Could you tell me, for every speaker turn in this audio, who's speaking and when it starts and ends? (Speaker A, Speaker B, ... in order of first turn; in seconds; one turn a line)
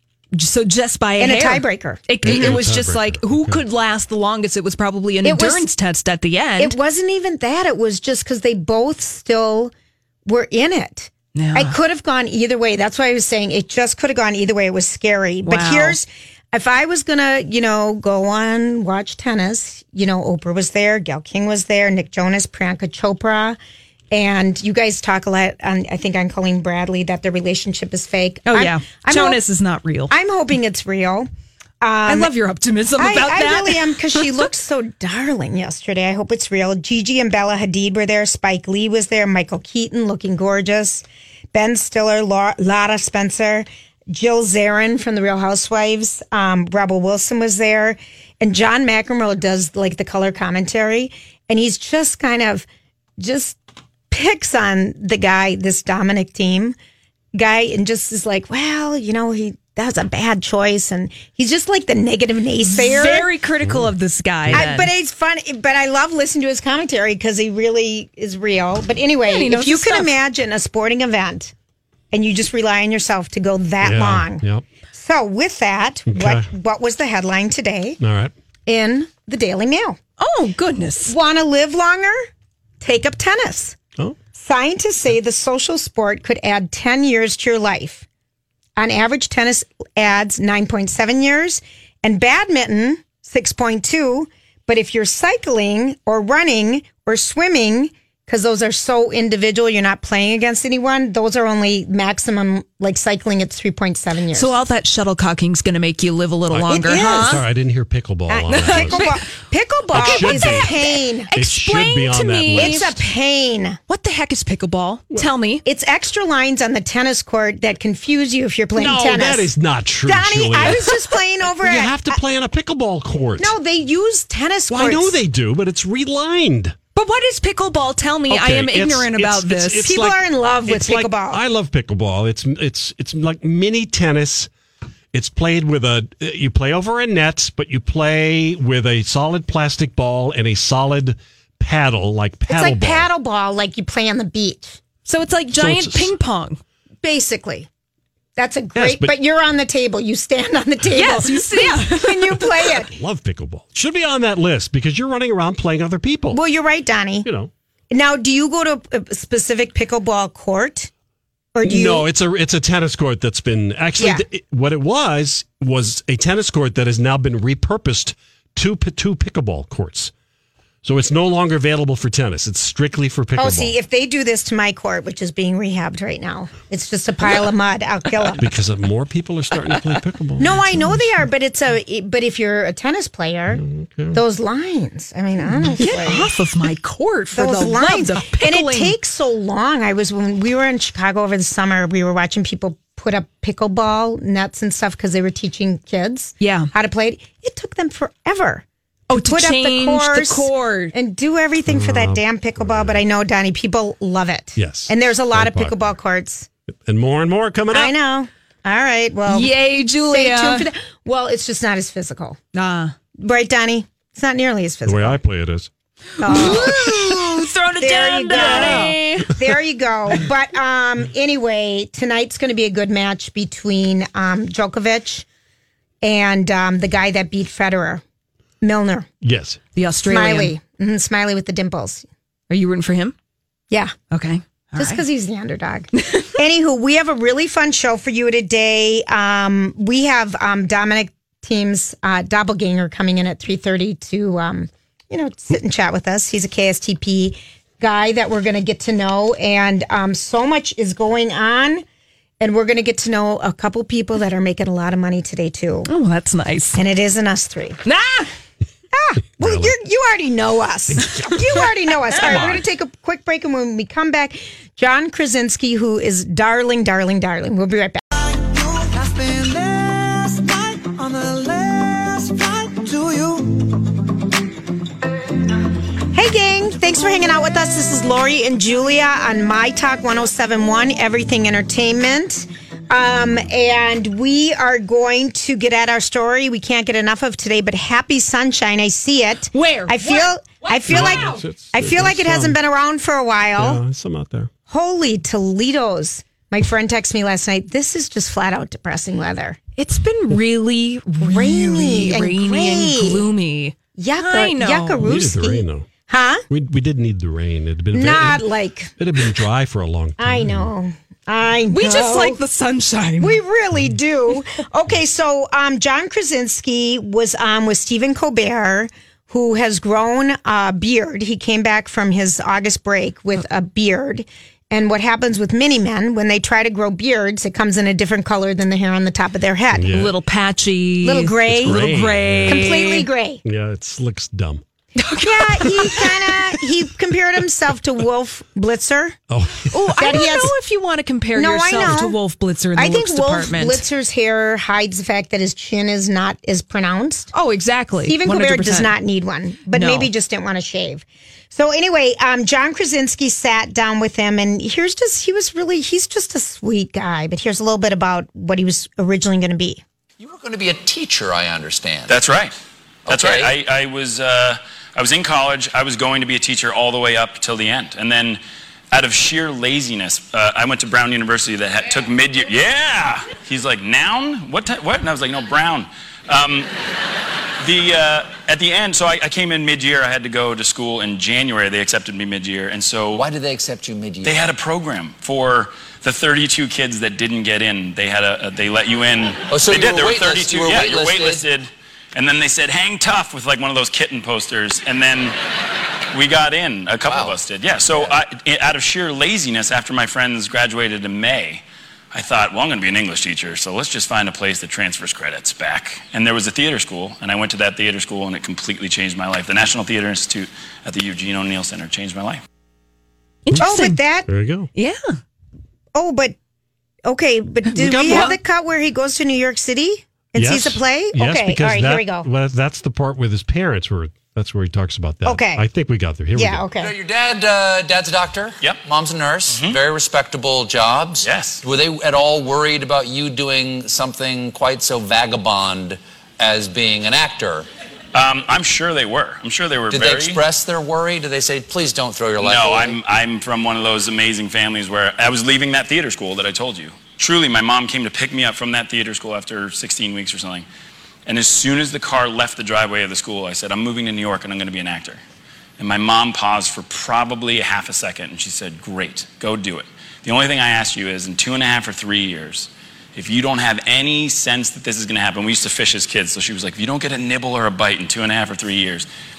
Speaker A: 0.3-6.8
Speaker B: 1.2-2.6
Speaker C: 2.2-3.6
Speaker B: 5.2-5.7
Speaker B: 6.6-9.7
Speaker B: 10.2-23.6
Speaker A: 11.3-11.8
Speaker A: 15.4-16.0
Speaker B: 24.1-29.4
Speaker A: 28.5-30.1
Speaker B: 30.1-31.3
Speaker B: 31.8-32.3
Speaker A: 32.1-34.5
Speaker B: 33.0-52.7
Speaker B: 53.2-53.6
Speaker B: 54.1-56.8
Speaker B: 57.3-63.3
Speaker A: 62.6-64.9
Speaker C: 63.6-63.9
Speaker B: 64.5-71.5
Speaker A: 69.3-70.1
Speaker B: 72.1-78.0
Speaker C: 73.8-74.6
Speaker C: 76.1-76.5
Speaker C: 78.0-78.3
Speaker B: 78.7-80.0
Speaker A: 80.2-81.2
Speaker B: 81.1-82.3
Speaker B: 82.8-83.8
Speaker B: 84.3-88.1
Speaker B: 88.8-104.5
Speaker A: 104.3-107.4
Speaker C: 106.5-109.1
Speaker B: 106.7-107.5
Speaker B: 108.3-111.3
Speaker A: 108.5-109.2
Speaker C: 109.9-110.8
Speaker A: 110.0-113.0
Speaker C: 111.3-113.0
Speaker B: 112.5-113.8
Speaker A: 113.9-115.6
Speaker B: 115.7-119.5
Speaker C: 118.8-121.0
Speaker B: 120.0-122.2
Speaker C: 121.6-123.5
Speaker B: 123.4-125.2
Speaker C: 124.7-126.8
Speaker A: 127.0-129.9
Speaker C: 128.3-134.5
Speaker B: 129.8-131.4
Speaker C: 135.1-143.1
Speaker B: 142.5-144.8
Speaker A: 145.1-146.6
Speaker C: 145.5-146.1
Speaker B: 147.0-147.7
Speaker B: 148.4-152.9
Speaker C: 148.8-149.1
Speaker A: 150.9-152.4
Speaker C: 152.9-156.4
Speaker B: 156.3-157.3
Speaker C: 157.2-157.5
Speaker B: 157.9-160.9
Speaker B: 161.6-162.1
Speaker C: 161.6-170.1
Speaker B: 164.0-164.2
Speaker C: 170.8-173.7
Speaker B: 173.4-178.5
Speaker C: 178.4-181.1
Speaker B: 180.4-183.6
Speaker C: 183.5-184.2
Speaker B: 184.1-186.3
Speaker A: 185.8-188.9
Speaker B: 187.3-206.5
Speaker A: 196.4-196.7
Speaker A: 199.1-200.9
Speaker C: 201.7-203.0
Speaker C: 204.6-205.9
Speaker C: 206.7-207.9
Speaker B: 207.7-209.5
Speaker A: 209.3-210.7
Speaker B: 210.1-212.4
Speaker A: 212.5-212.9
Speaker B: 213.2-215.2
Speaker C: 214.8-215.7
Speaker B: 216.2-217.2
Speaker A: 216.2-219.3
Speaker B: 217.8-225.3
Speaker C: 218.6-218.9
Speaker B: 226.0-228.0
Speaker B: 228.6-229.1
Speaker C: 229.2-229.6
Speaker A: 229.8-230.6
Speaker B: 230.1-232.1
Speaker A: 232.5-233.2
Speaker A: 234.1-235.0
Speaker B: 234.8-251.8
Speaker B: 252.4-255.9
Speaker A: 255.9-256.8
Speaker B: 256.8-257.8
Speaker A: 257.9-258.3
Speaker B: 258.9-268.0
Speaker C: 259.4-259.7
Speaker A: 261.2-262.6
Speaker C: 262.2-262.6
Speaker D: 268.2-273.8
Speaker B: 276.1-293.8
Speaker A: 289.5-291.4
Speaker C: 290.9-292.6
Speaker C: 293.6-294.5
Speaker B: 294.7-299.6
Speaker A: 299.8-305.0
Speaker B: 301.2-303.3
Speaker B: 304.0-306.4
Speaker C: 305.0-305.9
Speaker C: 306.5-308.4
Speaker B: 307.9-309.0
Speaker C: 309.0-310.7
Speaker B: 310.2-312.4
Speaker A: 311.7-313.4
Speaker B: 313.2-329.9
Speaker C: 329.7-330.1
Speaker A: 329.9-333.1
Speaker B: 331.0-331.9
Speaker C: 331.5-332.8
Speaker B: 332.5-333.4
Speaker C: 333.4-334.6
Speaker A: 335.0-336.1
Speaker B: 335.2-339.2
Speaker C: 339.3-340.2
Speaker A: 339.7-343.8
Speaker B: 340.0-340.5
Speaker B: 341.4-342.2
Speaker B: 342.8-347.3
Speaker A: 347.3-348.9
Speaker B: 348.0-359.8
Speaker A: 349.7-350.1
Speaker E: 360.2-362.2
Speaker F: 362.1-362.5
Speaker E: 363.1-363.6
Speaker F: 363.1-368.4
Speaker F: 368.9-376.7
Speaker F: 377.6-383.3
Speaker E: 383.1-384.5
Speaker F: 384.2-395.4
Speaker E: 389.5-391.4
Speaker F: 396.1-412.4
Speaker E: 397.1-398.2
Speaker A: 413.5-414.0
Speaker B: 413.6-414.3
Speaker C: 414.3-414.7
Speaker A: 414.8-415.2
Speaker B: 415.9-416.4
Speaker B: 417.1-422.3
Speaker C: 417.8-418.3
Speaker A: 417.9-418.4
Speaker C: 420.4-426.6
Speaker B: 425.2-425.7
Speaker B: 426.3-426.9
Speaker E: 426.8-437.7
Speaker F: 429.5-429.8
Speaker F: 431.2-431.6
Speaker F: 438.1-440.4
Speaker E: 439.9-443.0
Speaker F: 442.4-450.7
Speaker F: 451.3-455.2
Speaker F: 455.8-469.1